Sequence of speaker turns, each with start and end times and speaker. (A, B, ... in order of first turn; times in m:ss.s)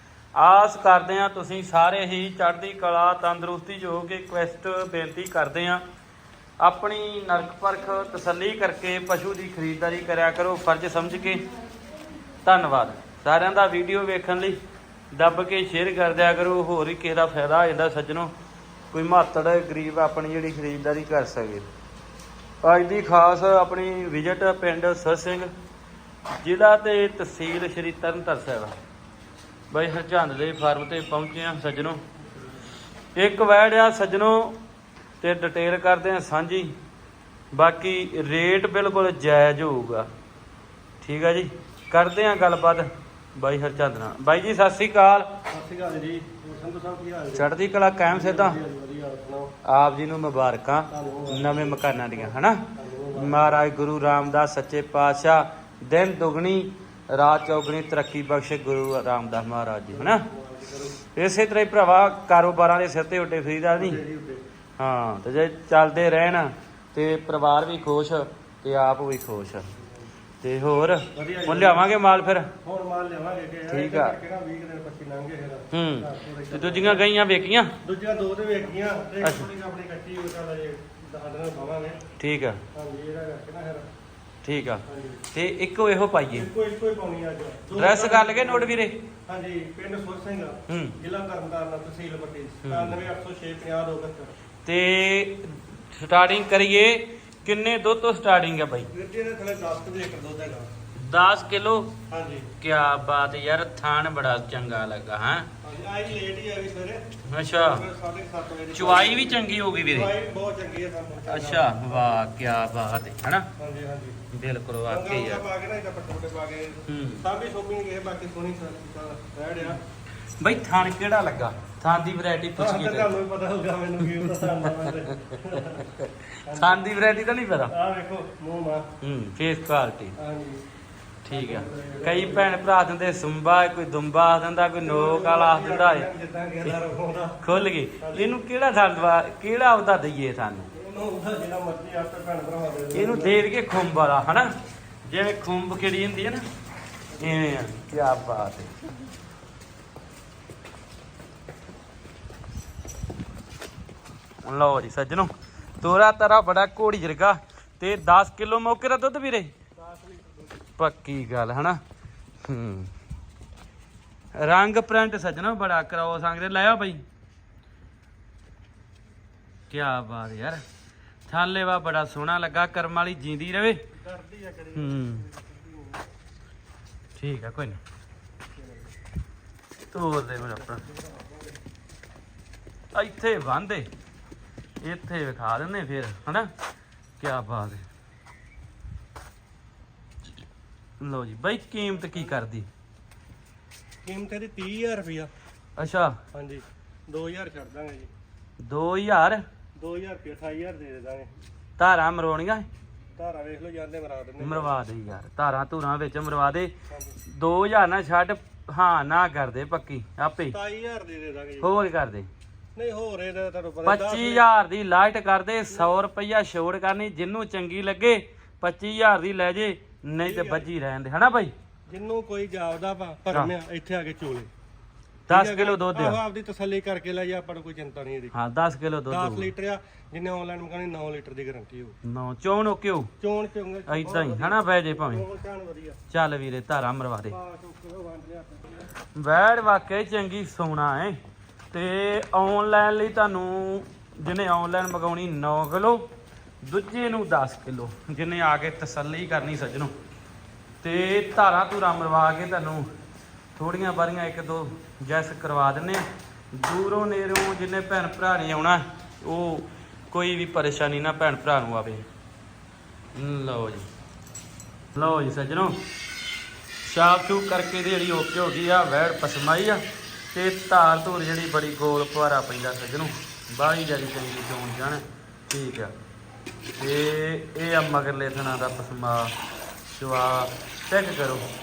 0:00.3-0:05.8 A
0:06.6-0:11.5 A
0:12.4-0:14.6 A
0:15.1-0:18.3 A
0:18.9-0:21.7 A
0:22.6-0:25.5 A
0:26.4-0:28.7 A
0:29.7-0:32.0 A
0:33.2-0:34.6 A
0:35.2-0:36.7 A
0:37.5-0:40.1 A
0:41.0-0:45.4 A
0:45.5-0:47.5 B
0:47.3-0:48.6 A
0:48.1-0:49.5 B
0:49.6-1:00.2 A
0:50.9-0:53.6 B
0:59.9-1:01.0 B
1:01.1-1:04.0 A
1:03.8-1:04.4 B
1:04.8-1:09.7 A
1:10.4-1:12.5 A
1:11.1-1:11.9 B
1:12.6-1:17.0 B
1:13.7-1:14.2 A
1:15.7-1:17.7 A
1:17.8-1:22.0 B
1:19.2-1:19.5 A
1:22.2-1:22.6 A
1:22.7-1:23.9 B
1:24.4-1:26.5 A
1:24.8-1:25.2 B
1:26.3-1:28.7 B
1:27.7-1:29.0 A
1:29.3-1:34.3 B
1:30.7-1:31.0 A
1:32.6-1:33.0 A
1:34.6-1:38.9 A
1:38.9-1:40.7 B
1:41.0-1:42.0 A
1:42.1-1:42.5 B
1:42.6-1:45.5 A
1:45.6-1:52.3 B
1:47.2-1:47.8 A
1:48.7-1:50.1 A
1:51.2-1:53.5 A
1:53.6-1:54.2 B
1:54.3-1:55.4 A
1:54.9-1:59.8 B
1:56.9-1:57.2 A
2:00.4-2:03.1 A
2:02.6-2:05.9 B
2:04.2-2:07.7 A
2:06.4-2:08.8 B
2:09.0-2:10.1 A
2:10.2-2:10.6 B
2:11.2-2:16.1 A
2:11.3-2:12.5 B
2:14.8-2:18.4 B
2:17.4-2:20.7 A
2:20.7-2:23.4 B
2:22.9-2:24.5 A
2:25.0-2:26.4 A
2:27.1-2:27.6 B
2:27.2-2:28.7 A
2:34.4-2:39.5 A
2:39.8-2:40.6 B
2:40.8-2:41.8 A
2:42.4-2:42.9 A
2:44.3-2:47.0 A
2:49.7-2:50.6 A
2:51.3-2:53.8 A
2:53.9-2:56.1 B
2:54.8-2:55.3 A
2:57.2-2:57.8 A
2:58.6-2:58.9 B
2:59.9-3:00.8 A
3:00.4-3:01.5 B
3:02.9-3:03.9 A
3:04.8-3:06.5 A
3:07.2-3:07.8 A
3:11.0-3:12.7 A
3:14.0-3:15.3 B
3:15.8-3:16.2 A
3:16.3-3:18.1 B
3:18.6-3:19.4 A
3:19.8-3:21.3 B
3:21.8-3:22.7 A
3:23.2-3:24.7 B
3:24.4-3:26.7 A
3:26.9-3:27.2 B
3:27.3-3:30.6 A
3:30.5-3:31.7 B
3:31.6-3:32.3 A
3:32.8-3:34.4 B
3:33.8-3:41.5 A
3:40.2-3:40.7 B
3:41.9-3:44.5 B
3:45.3-3:46.2 A
3:45.3-3:48.3 B
3:48.3-3:49.5 A
3:49.1-3:51.9 B
3:52.0-3:53.1 A
3:53.2-3:56.0 B
3:53.9-3:55.2 A
3:56.1-3:57.4 A
3:57.3-3:58.8 B
3:59.1-4:01.2 A
4:01.7-4:06.1 A
4:06.6-4:09.9 A
4:10.8-4:12.8 A
4:13.6-4:22.0 A
4:23.1-4:23.9 A
4:24.9-4:25.8 A
4:26.8-4:29.8 A
4:30.3-4:35.9 A
4:36.8-4:39.3 A
4:40.0-4:41.4 A